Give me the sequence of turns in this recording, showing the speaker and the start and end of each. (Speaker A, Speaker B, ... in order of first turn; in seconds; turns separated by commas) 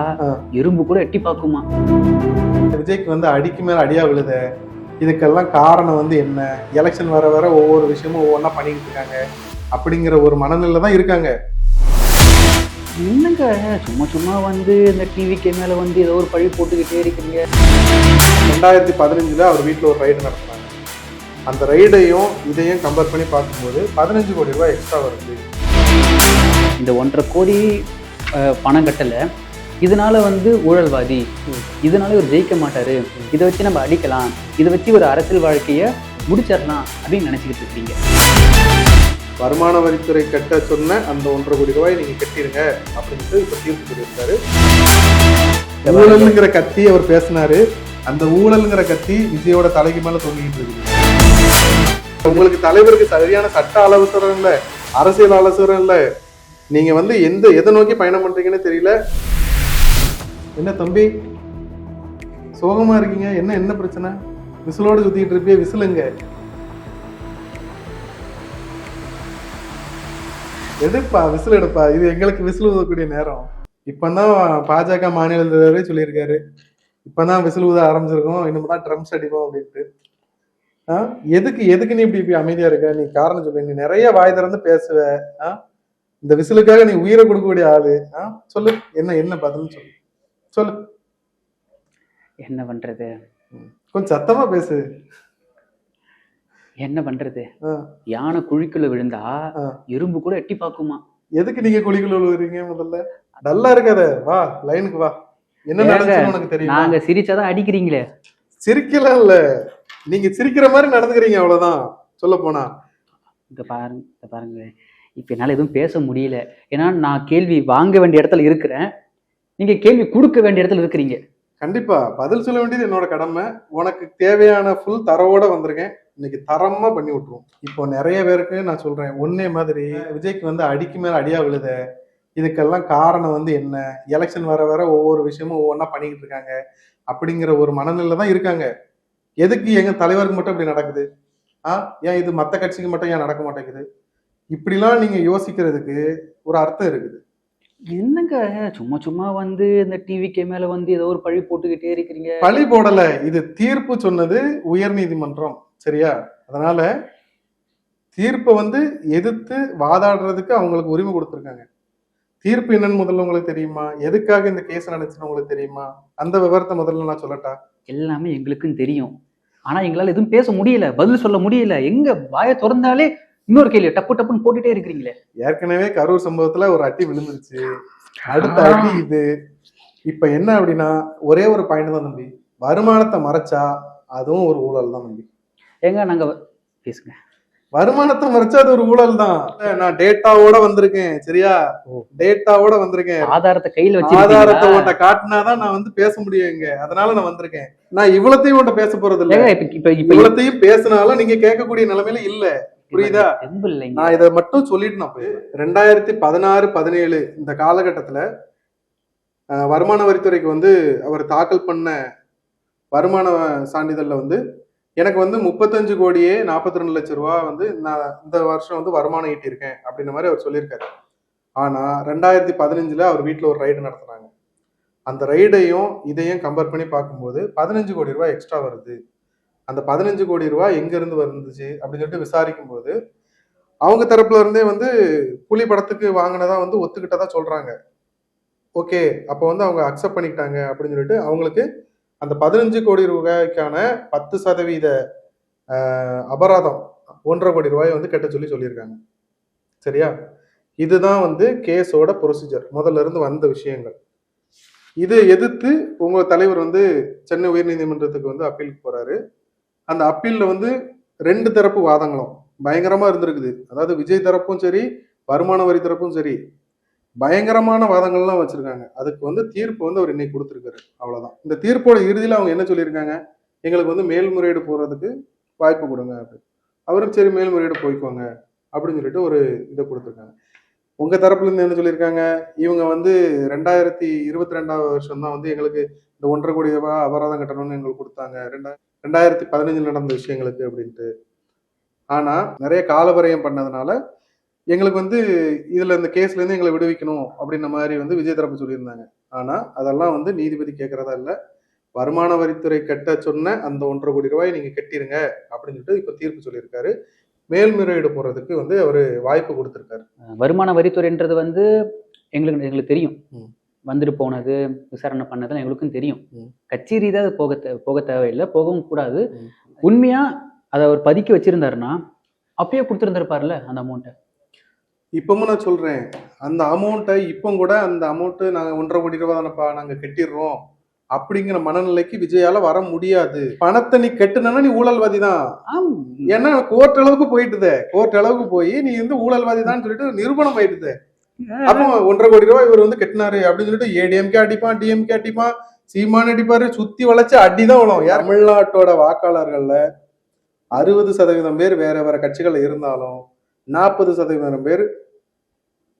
Speaker A: 0.6-1.6, Speaker B: 2.8-4.4, Speaker B: 5.0-9.2, Speaker B: 9.8-11.3, Speaker A: 13.0-17.4, Speaker B: 18.5-20.7, Speaker B: 21.5-25.4, Speaker A: 26.8-27.6, Speaker A: 28.5-29.2, Speaker A: 29.8-31.2, Speaker A: 31.9-37.9, Speaker B: 39.4-44.4, Speaker A: 45.9-46.3, Speaker B: 45.9-51.0, Speaker B: 52.2-56.0, Speaker B: 56.7-59.0, Speaker B: 60.6-61.1, Speaker B: 62.6-64.1, Speaker B: 64.7-66.1, Speaker B: 70.8-76.4, Speaker B: 77.0-79.8, Speaker B: 80.9-85.5, Speaker B: 86.2-89.9, Speaker A: 92.4-93.1, Speaker B: 93.5-94.8, Speaker A: 96.8-97.5, Speaker A: 98.1-99.3, Speaker A: 99.9-101.0, Speaker B: 101.4-105.1, Speaker B: 105.7-106.9, Speaker A: 105.8-108.0, Speaker B: 108.6-109.4, Speaker B: 110.1-112.7, Speaker A: 113.5-118.9, Speaker A: 119.6-121.2, Speaker B: 121.6-131.7, Speaker B: 132.4-136.5, Speaker B: 137.1-138.7, Speaker B: 139.4-141.1, Speaker B: 141.7-143.8, Speaker B: 144.5-147.2, Speaker A: 147.9-152.4, Speaker B: 152.4-156.9, Speaker B: 158.1-161.6, Speaker B: 162.4-167.6, Speaker A: 167.9-169.1, Speaker A: 169.7-175.1, Speaker B: 175.4-177.7, Speaker B: 178.2-179.2, Speaker B: 180.1-183.6, Speaker B: 184.2-185.2, Speaker A: 185.9-186.3, Speaker A: 186.8-187.1, Speaker B: 187.8-191.6, Speaker B: 192.1-193.3, Speaker A: 193.2-194.9, Speaker B: 194.0-199.5, Speaker A: 199.3-200.3, Speaker B: 200.1-203.3, Speaker A: 202.9-204.1, Speaker B: 203.9-208.2, Speaker B: 209.7-212.0, Speaker B: 212.9-214.4, Speaker B: 215.0-220.9, Speaker B: 221.6-224.3, Speaker B: 225.1-228.9, Speaker B: 229.7-232.9, Speaker B: 233.8-234.9, Speaker B: 235.5-237.7, Speaker B: 238.8-241.7, Speaker B: 242.2-244.9, Speaker B: 245.7-249.0, Speaker B: 249.8-250.1, Speaker B: 250.8-253.9, Speaker B: 255.0-259.2, Speaker B: 259.9-260.7, Speaker B: 261.3-266.4, Speaker B: 267.2-280.3, Speaker B: 281.0-291.1, Speaker B: 292.1-294.0, Speaker B: 294.7-295.2, Speaker B: 295.7-301.3, Speaker B: 302.0-306.9, Speaker B: 307.5-310.0, Speaker A: 310.4-311.6, Speaker A: 312.4-313.2, Speaker A: 313.9-319.2, Speaker A: 319.8-322.0, Speaker A: 322.6-324.1, Speaker B: 325.2-330.6, Speaker B: 331.1-335.4, Speaker A: 335.7-336.3, Speaker B: 336.3-340.9, Speaker A: 341.4-341.9, Speaker B: 341.7-349.8, Speaker B: 350.7-353.2, Speaker B: 353.7-354.8